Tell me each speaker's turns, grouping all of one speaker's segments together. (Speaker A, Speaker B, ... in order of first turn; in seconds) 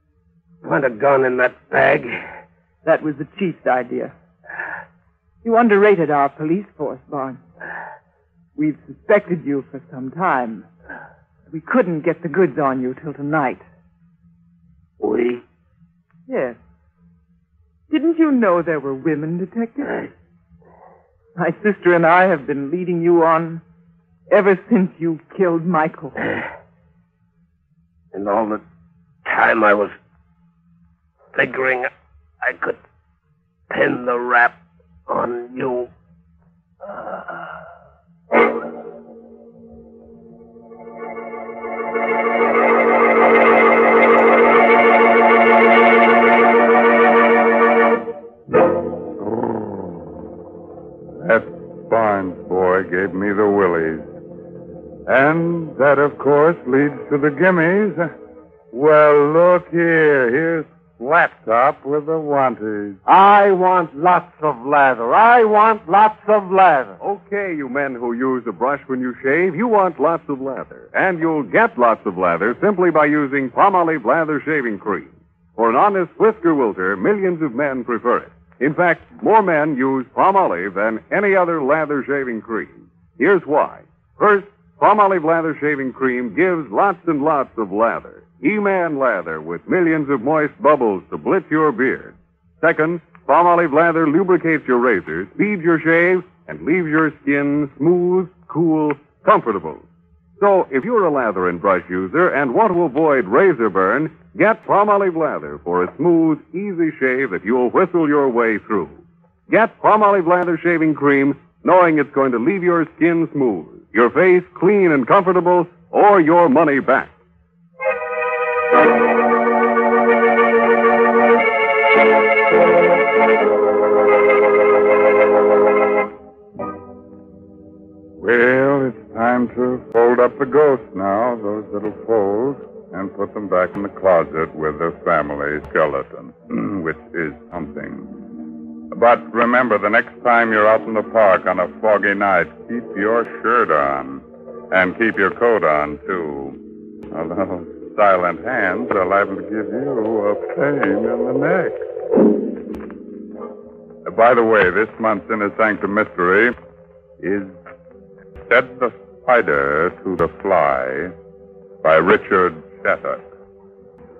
Speaker A: 0.6-2.2, 15.0-15.4, 28.1-28.6, 29.2-29.9, 31.3-31.9, 32.4-32.8, 33.7-34.5, 35.1-35.9, 36.8-37.5
Speaker B: 2.8-4.1, 5.4-7.4, 8.6-10.7, 11.5-13.6, 16.3-16.6, 17.9-20.0, 21.4-23.6, 24.3-26.4
Speaker C: 49.2-50.2, 51.2-54.1, 55.1-58.1, 58.7-63.0, 128.2-138.2, 138.9-146.6, 147.1-151.8, 154.0-156.5, 157.2-157.5, 158.4-161.1, 161.8-163.3
Speaker D: 63.0-67.0
Speaker E: 67.0-99.8, 100.4-109.0, 109.5-117.1